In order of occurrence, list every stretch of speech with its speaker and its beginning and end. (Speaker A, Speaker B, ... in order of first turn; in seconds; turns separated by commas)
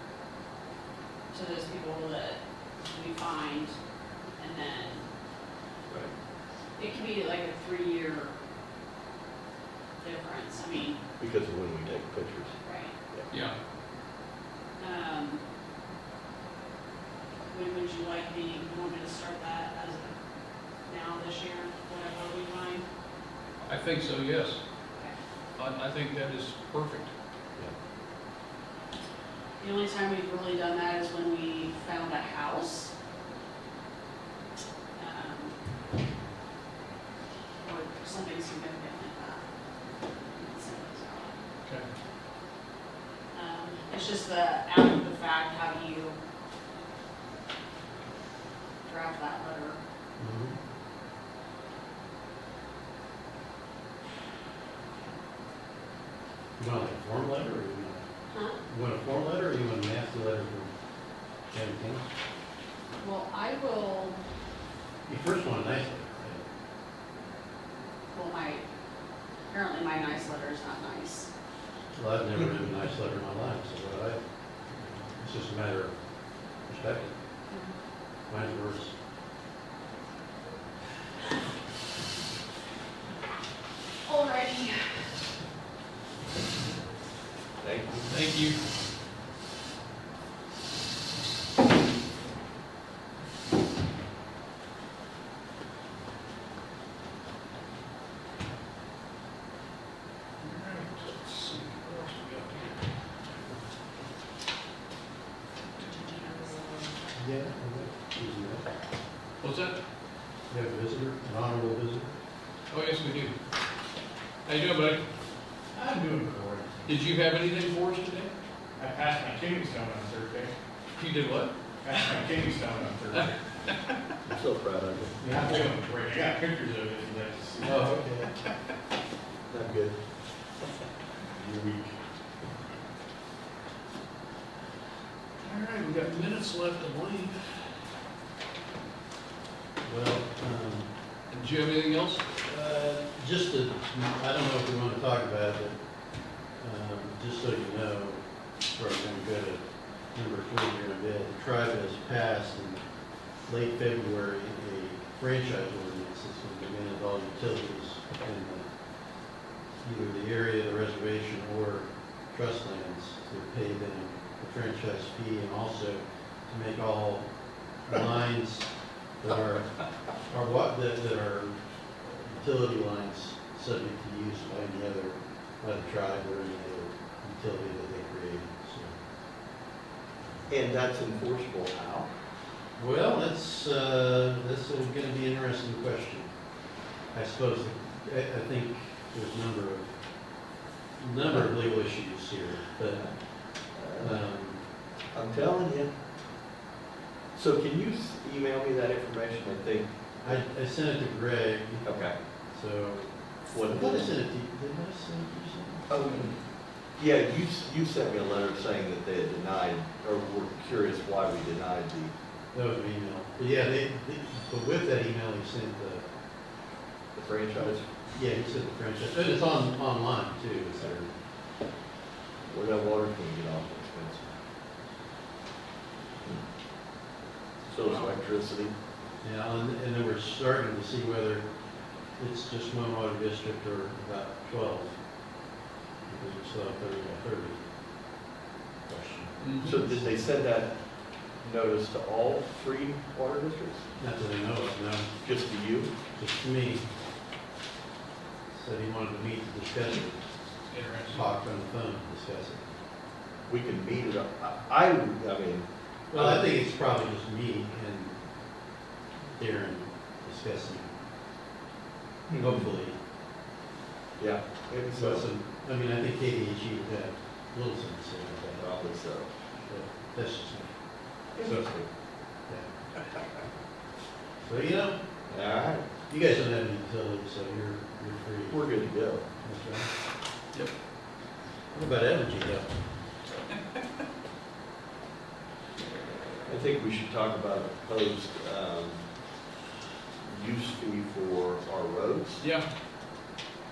Speaker A: 1.3-3.8, Speaker A: 4.4-5.1, Speaker A: 6.8-8.3, Speaker A: 10.0-11.0, Speaker B: 11.2-12.5, Speaker A: 12.6-12.9, Speaker C: 13.3-13.6, Speaker A: 14.8-15.4, Speaker A: 17.5-20.2, Speaker A: 20.9-22.9, Speaker C: 23.6-24.6, Speaker C: 25.6-27.1, Speaker A: 29.6-32.9, Speaker A: 35.0-35.5, Speaker A: 37.6-39.4, Speaker A: 40.3-41.3, Speaker A: 43.3-46.2, Speaker A: 48.8-49.8, Speaker D: 50.2-50.6, Speaker D: 56.6-58.0, Speaker A: 58.3-58.6, Speaker D: 58.6-60.7, Speaker D: 61.5-62.1, Speaker A: 63.0-64.2, Speaker D: 65.0-66.4, Speaker A: 68.1-68.6, Speaker A: 69.5-71.3, Speaker D: 71.9-74.2, Speaker D: 75.2-75.9, Speaker D: 76.7-77.1, Speaker A: 77.5-77.8, Speaker D: 78.3-78.9, Speaker A: 84.0-85.0, Speaker B: 87.6-88.1, Speaker C: 88.1-88.6, Speaker C: 100.4-102.8, Speaker A: 105.8-106.7, Speaker C: 105.8-106.9, Speaker D: 107.2-108.7, Speaker C: 109.4-109.8, Speaker D: 110.5-112.1, Speaker C: 112.7-113.3, Speaker C: 114.4-115.0, Speaker C: 116.8-118.3, Speaker E: 118.8-120.5, Speaker C: 121.0-121.5, Speaker E: 122.0-123.3, Speaker C: 123.1-123.9, Speaker B: 124.2-125.2, Speaker E: 125.4-127.4, Speaker D: 127.6-128.3, Speaker C: 127.6-128.0, Speaker B: 129.5-129.9, Speaker C: 135.4-137.4, Speaker D: 139.8-140.9, Speaker C: 141.3-142.3, Speaker D: 142.4-145.8, Speaker D: 146.4-152.8, Speaker D: 153.4-158.7, Speaker D: 159.8-167.3, Speaker D: 167.8-178.9, Speaker B: 180.5-182.1, Speaker D: 182.8-186.3, Speaker D: 187.1-190.0, Speaker D: 191.0-193.1, Speaker B: 193.8-194.2, Speaker D: 194.0-194.6, Speaker B: 195.1-195.9, Speaker B: 197.3-200.4, Speaker D: 200.2-201.9, Speaker B: 201.8-202.1, Speaker D: 202.5-206.3, Speaker B: 203.5-204.1, Speaker B: 205.9-206.3, Speaker B: 207.0-212.1, Speaker D: 212.5-216.1, Speaker B: 217.1-217.9, Speaker D: 218.1-221.1, Speaker B: 222.4-224.3, Speaker B: 227.7-228.7, Speaker D: 229.2-231.4, Speaker D: 232.2-235.0, Speaker D: 236.1-237.6, Speaker D: 238.9-240.2, Speaker C: 239.4-239.8, Speaker B: 239.6-240.7, Speaker B: 241.4-243.8, Speaker D: 244.0-245.1, Speaker B: 245.2-245.9, Speaker D: 246.2-246.8, Speaker D: 248.5-250.2, Speaker C: 250.7-251.2, Speaker D: 251.1-252.6, Speaker B: 253.5-256.4, Speaker D: 256.1-258.2, Speaker D: 259.3-260.9, Speaker B: 262.3-262.6, Speaker D: 262.4-262.9, Speaker B: 264.2-265.3, Speaker D: 264.9-268.7, Speaker B: 268.6-269.3, Speaker D: 269.7-270.7, Speaker B: 271.4-271.9, Speaker D: 274.4-275.0, Speaker B: 275.3-275.9, Speaker D: 276.1-278.6, Speaker B: 278.5-279.2, Speaker D: 279.4-279.9, Speaker D: 281.7-282.7, Speaker B: 286.5-289.0, Speaker B: 290.2-292.4